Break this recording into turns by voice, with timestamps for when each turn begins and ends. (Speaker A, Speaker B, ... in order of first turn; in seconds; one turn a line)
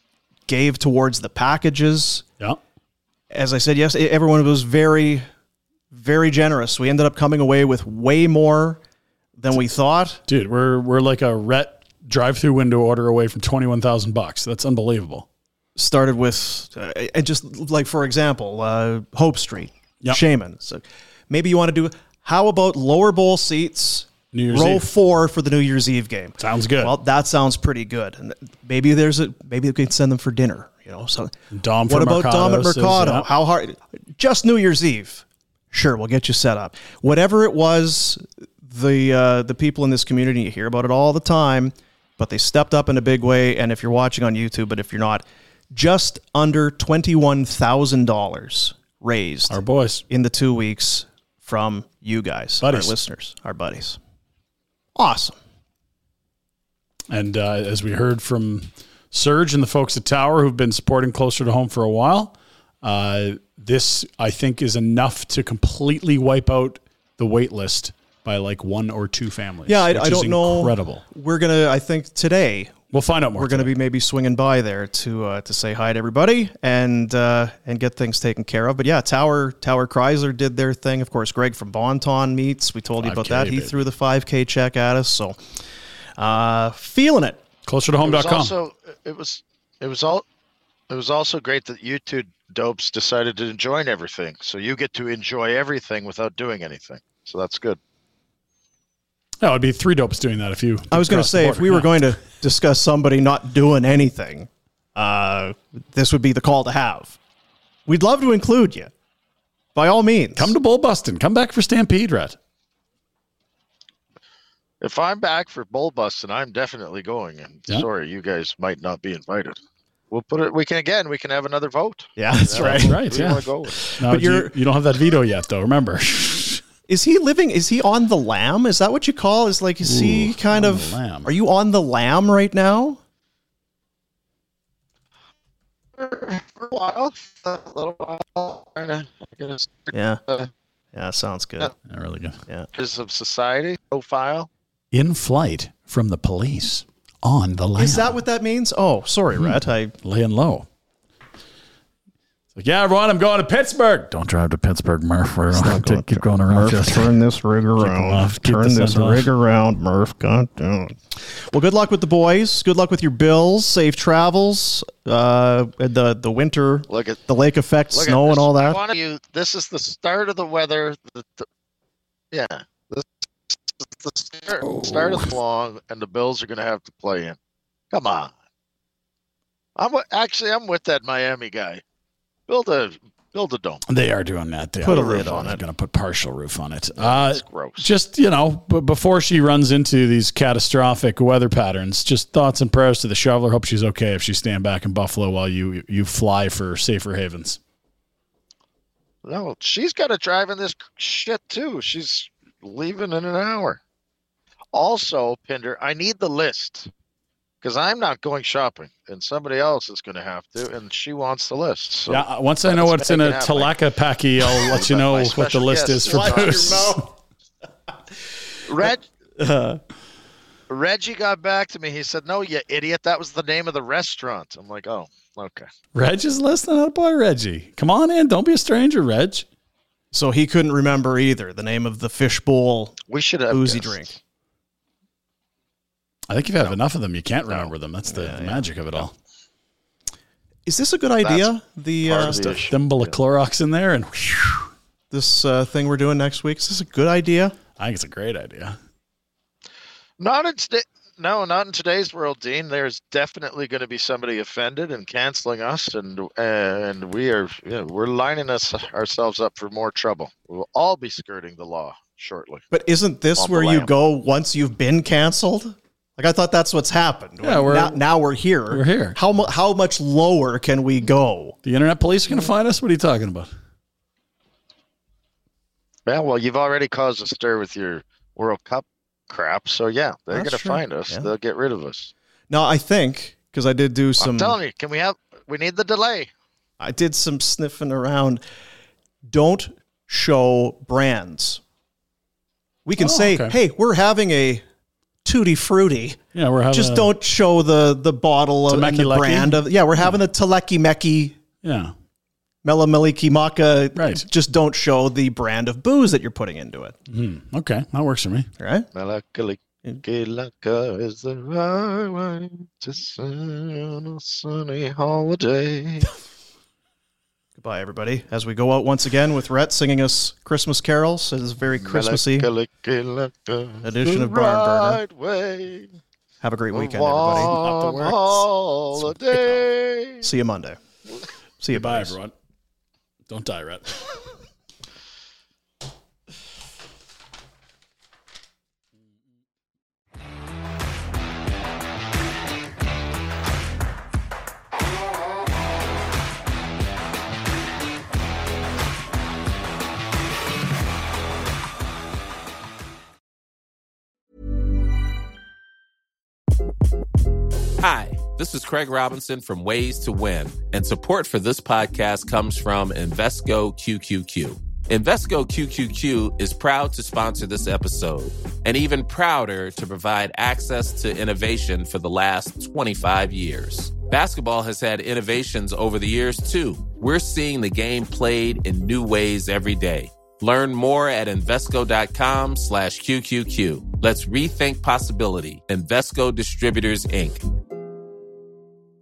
Speaker A: 0.5-2.2
Speaker A: 3.3-5.3
Speaker A: 5.9-8.8
Speaker A: 9.4-10.2
Speaker B: 10.3-15.3
Speaker A: 15.8-31.3
Speaker B: 24.3-24.9
Speaker B: 26.4-27.0
Speaker B: 31.5-33.3
Speaker A: 31.9-54.0
Speaker B: 49.5-50.0
Speaker B: 52.6-53.0
Speaker A: 55.0-55.4
Speaker B: 57.1-71.0
Speaker A: 69.7-72.8
Speaker B: 72.9-73.8
Speaker A: 73.4-85.4
Speaker B: 83.0-83.8
Speaker A: 86.2-87.4
Speaker B: 87.7-88.5
Speaker C: 88.0-90.2
Speaker C: 90.9-97.8
Speaker B: 99.4-102.0
Speaker A: 100.9-107.2
Speaker A: 107.9-108.9
Speaker A: 109.8-110.5
Speaker B: 110.4-112.4
Speaker C: 114.8-119.6
Speaker C: 120.1-123.8
Speaker A: 122.2-123.0
Speaker B: 122.5-126.6
Speaker A: 123.7-124.5
Speaker A: 126.9-133.0
Speaker B: 129.8-131.3
Speaker C: 136.0-140.5
Speaker A: 139.9-140.2
Speaker A: 140.9-141.7
Speaker B: 141.9-142.4
Speaker C: 142.7-144.5
Speaker B: 144.9-148.2
Speaker A: 147.8-149.9
Speaker B: 149.3-150.7
Speaker B: 152.6-157.2
Speaker A: 155.5-168.8
Speaker B: 157.8-159.3
Speaker C: 166.9-167.2
Speaker C: 167.9-171.5
Speaker C: 172.3-177.4
Speaker B: 174.6-175.3
Speaker C: 177.9-178.3
Speaker C: 179.8-181.8
Speaker C: 182.5-183.8
Speaker B: 183.9-197.6
Speaker A: 184.8-185.6
Speaker C: 187.0-187.9
Speaker C: 199.2-203.8
Speaker C: 204.7-206.9
Speaker C: 207.6-213.8
Speaker B: 212.1-217.1
Speaker C: 214.6-216.9
Speaker A: 216.1-217.1
Speaker C: 218.7-219.0
Speaker A: 219.4-219.8
Speaker C: 220.7-225.7
Speaker B: 225.9-229.5
Speaker A: 230.1-233.0
Speaker C: 233.1-234.2
Speaker A: 233.5-234.1
Speaker B: 236.3-239.1
Speaker A: 238.1-239.1
Speaker A: 240.7-242.7
Speaker C: 241.2-241.5
Speaker C: 242.0-243.2
Speaker B: 242.7-244.7
Speaker A: 245.1-247.6
Speaker B: 247.8-248.8
Speaker C: 250.2-262.6
Speaker A: 262.7-271.6
Speaker C: 263.4-263.9
Speaker B: 267.4-268.0
Speaker B: 268.7-269.2
Speaker B: 271.6-273.5
Speaker C: 276.1-282.1
Speaker A: 280.3-281.3
Speaker A: 282.5-284.6
Speaker C: 284.2-286.3
Speaker A: 286.8-288.4
Speaker A: 289.3-291.6
Speaker A: 292.9-294.6
Speaker B: 293.0-293.6
Speaker A: 295.2-296.2
Speaker B: 296.4-297.1
Speaker A: 296.7-301.4
Speaker B: 298.7-300.2
Speaker B: 301.6-301.9
Speaker A: 302.6-307.0
Speaker B: 303.9-304.2
Speaker B: 307.1-308.5
Speaker A: 308.6-308.9
Speaker C: 308.9-316.1
Speaker A: 317.6-322.5
Speaker C: 321.8-325.9
Speaker A: 323.8-325.0
Speaker A: 326.4-327.6
Speaker C: 326.7-330.3
Speaker B: 327.4-329.6
Speaker A: 330.2-330.8
Speaker A: 331.6-332.2
Speaker B: 331.7-332.3
Speaker B: 333.3-334.2
Speaker D: 357.8-387.4